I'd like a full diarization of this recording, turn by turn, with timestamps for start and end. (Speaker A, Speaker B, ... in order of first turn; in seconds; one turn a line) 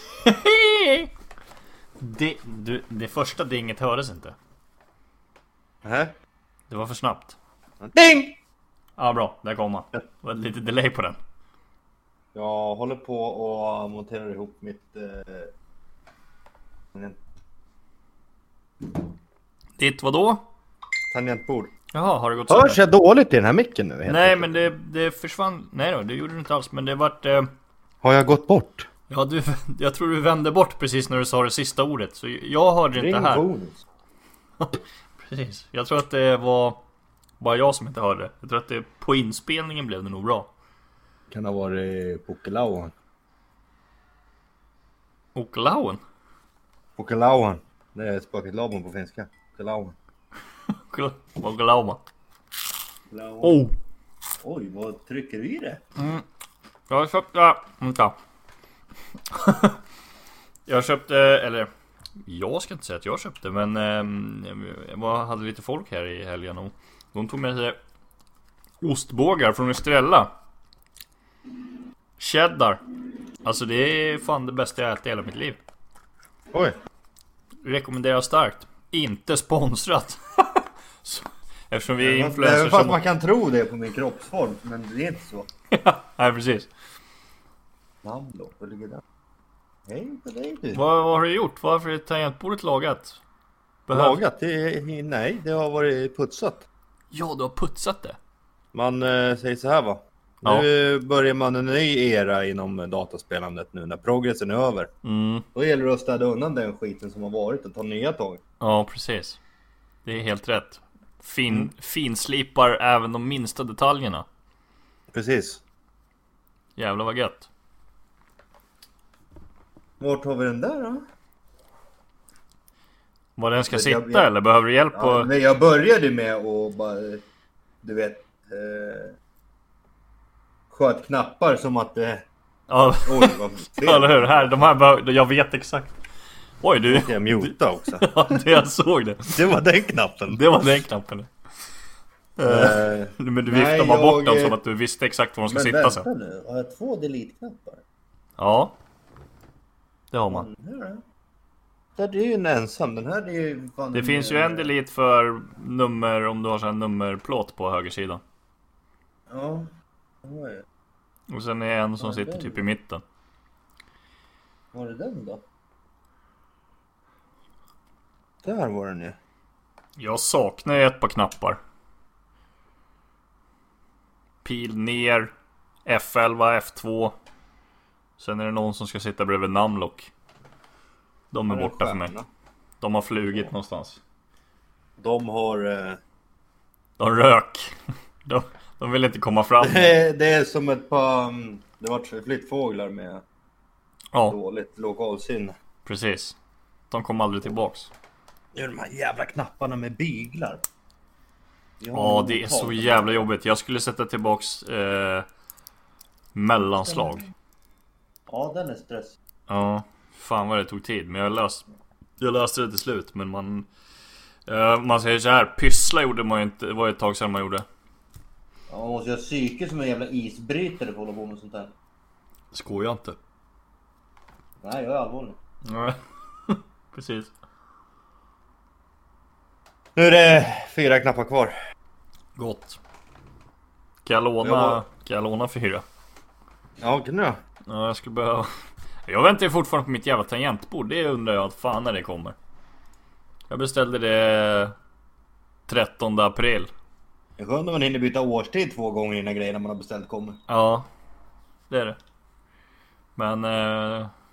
Speaker A: 0.2-1.1
Speaker A: 2.0-4.3
Speaker B: 5.8-6.1
Speaker A: 6.7-7.4
Speaker B: 7.8-8.3
Speaker A: 9.0-11.2
Speaker B: 12.3-15.5
Speaker A: 19.8-20.4
Speaker B: 21.1-21.7
Speaker A: 21.9-22.8
Speaker B: 22.5-24.6
Speaker A: 24.1-27.5
Speaker B: 28.0-28.9
Speaker A: 29.1-33.4
Speaker B: 33.0-33.8
Speaker A: 34.6-36.8
Speaker A: 37.4-40.5
Speaker B: 41.3-42.9
Speaker A: 45.3-46.0
Speaker B: 47.0-49.9
Speaker A: 50.9-52.0
Speaker B: 53.1-53.6
Speaker A: 53.4-53.7
Speaker B: 54.4-55.8
Speaker A: 56.0-56.2
Speaker A: 56.9-58.2
Speaker A: 59.3-59.8
Speaker A: 60.7-61.7
Speaker A: 62.2-67.8
Speaker A: 68.8-70.3
Speaker A: 72.2-72.8
Speaker A: 73.4-75.6
Speaker A: 77.6-83.0
Speaker B: 82.0-85.5
Speaker A: 85.7-86.7
Speaker B: 88.0-89.0
Speaker B: 89.8-90.8
Speaker A: 90.7-93.2
Speaker A: 93.9-94.2
Speaker B: 93.9-96.7
Speaker A: 97.1-98.2
Speaker B: 98.7-104.9
Speaker A: 105.0-105.4
Speaker B: 105.5-108.4
Speaker A: 108.6-109.4
Speaker A: 110.0-114.2
Speaker B: 115.1-115.6
Speaker A: 116.8-117.5
Speaker B: 120.0-121.0
Speaker A: 123.4-125.3
Speaker B: 123.7-124.3
Speaker B: 124.9-127.2
Speaker B: 127.8-129.2
Speaker B: 130.7-132.2
Speaker A: 132.7-135.9
Speaker B: 133.0-134.5
Speaker A: 136.6-139.4
Speaker B: 136.9-138.4
Speaker B: 139.3-140.5
Speaker A: 140.3-141.3
Speaker A: 142.4-146.1
Speaker B: 142.4-144.6
Speaker B: 145.5-147.8
Speaker A: 148.4-148.7
Speaker A: 150.1-150.5
Speaker B: 150.3-151.0
Speaker B: 152.0-154.7
Speaker A: 153.9-158.2
Speaker B: 159.3-159.7
Speaker B: 160.2-160.6
Speaker A: 161.3-163.0
Speaker B: 162.0-162.6
Speaker B: 164.7-165.4
Speaker B: 168.4-169.2
Speaker A: 170.0-171.6
Speaker A: 174.4-175.3
Speaker A: 175.8-177.1
Speaker A: 178.2-180.1
Speaker A: 181.3-182.1
Speaker B: 181.5-182.2
Speaker A: 182.8-184.0
Speaker B: 185.0-186.0
Speaker A: 187.0-187.7
Speaker A: 188.2-189.9
Speaker B: 189.6-193.2
Speaker B: 194.3-195.5
Speaker A: 195.8-196.3
Speaker A: 196.9-197.9
Speaker B: 198.5-200.6
Speaker B: 201.8-203.2
Speaker A: 201.9-205.2
Speaker A: 206.3-207.3
Speaker B: 206.8-207.2
Speaker B: 208.3-209.2
Speaker A: 209.5-211.6
Speaker A: 212.2-213.7
Speaker A: 214.5-217.7
Speaker B: 218.7-221.7
Speaker A: 222.5-223.2
Speaker B: 224.6-225.4
Speaker A: 225.7-227.3
Speaker B: 229.9-231.5
Speaker A: 232.3-232.8
Speaker A: 234.0-235.8
Speaker B: 234.4-234.8
Speaker B: 236.8-237.4
Speaker A: 237.7-238.5
Speaker A: 239.1-242.3
Speaker A: 243.5-244.7
Speaker A: 245.7-246.7
Speaker B: 247.4-250.4
Speaker A: 250.5-250.9
Speaker A: 251.7-252.0
Speaker A: 253.2-254.1